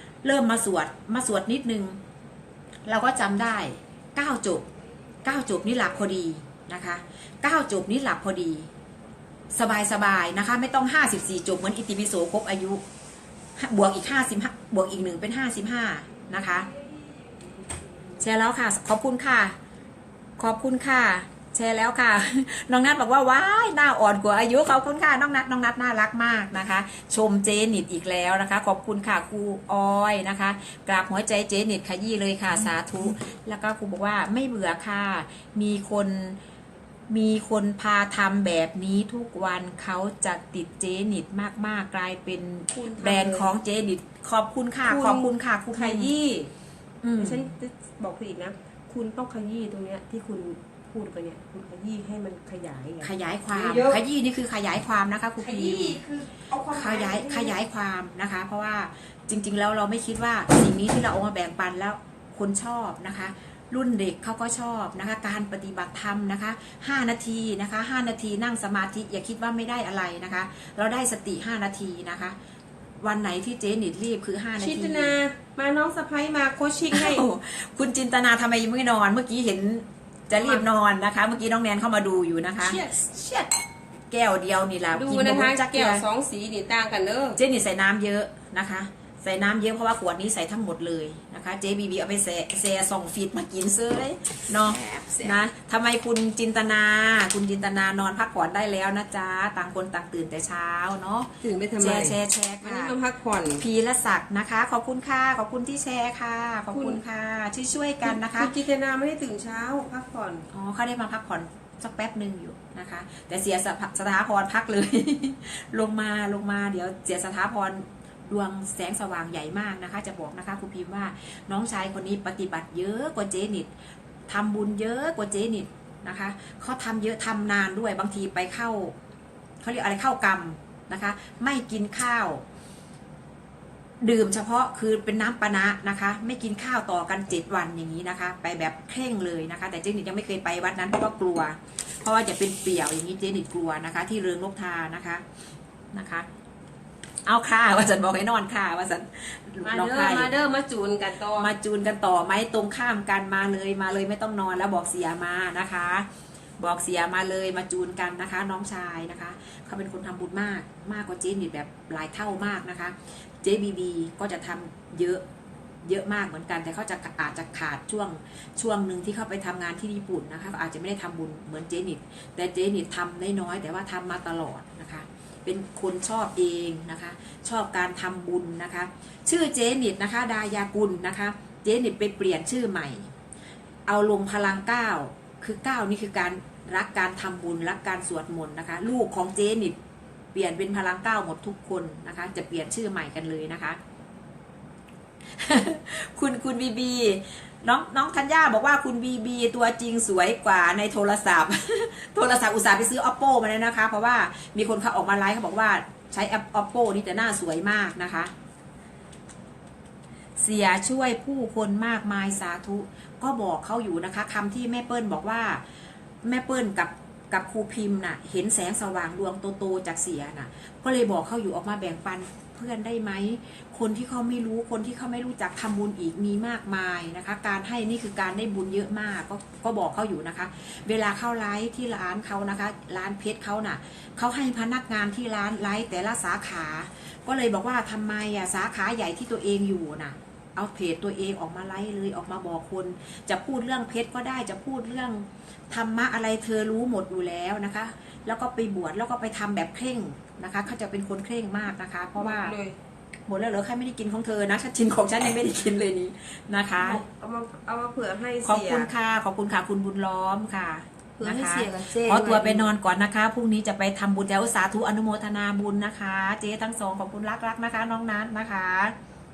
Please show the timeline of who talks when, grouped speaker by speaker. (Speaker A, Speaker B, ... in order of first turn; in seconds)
Speaker A: 0.2-2.0, 2.9-4.7, 5.2-8.7, 9.5-12.8, 13.6-16.7, 18.2-19.6, 20.4-36.4, 37.1-46.1, 47.0-47.5, 53.0-56.0, 56.7-72.3, 73.0-75.2, 76.9-83.5, 84.1-86.0, 87.4-102.9, 103.6-108.5, 110.5-123.7, 124.3-128.9, 129.6-132.4, 134.0-145.2, 145.9-146.3, 147.2-150.3, 151.4-156.1, 156.6-165.2, 165.8-183.1, 183.9-189.8, 190.3-193.8, 195.3-208.3, 210.4-215.6, 216.2-252.5, 253.3-257.0, 258.4-268.9
Speaker B: 42.7-43.5, 44.8-46.5, 47.2-54.0, 55.4-57.6, 74.6-77.2, 82.7-83.0, 84.9-87.4, 94.7-95.3, 101.4-103.6, 106.7-107.0, 108.0-110.5, 149.6-151.5, 252.2-252.8, 256.8-258.9, 261.2-262.7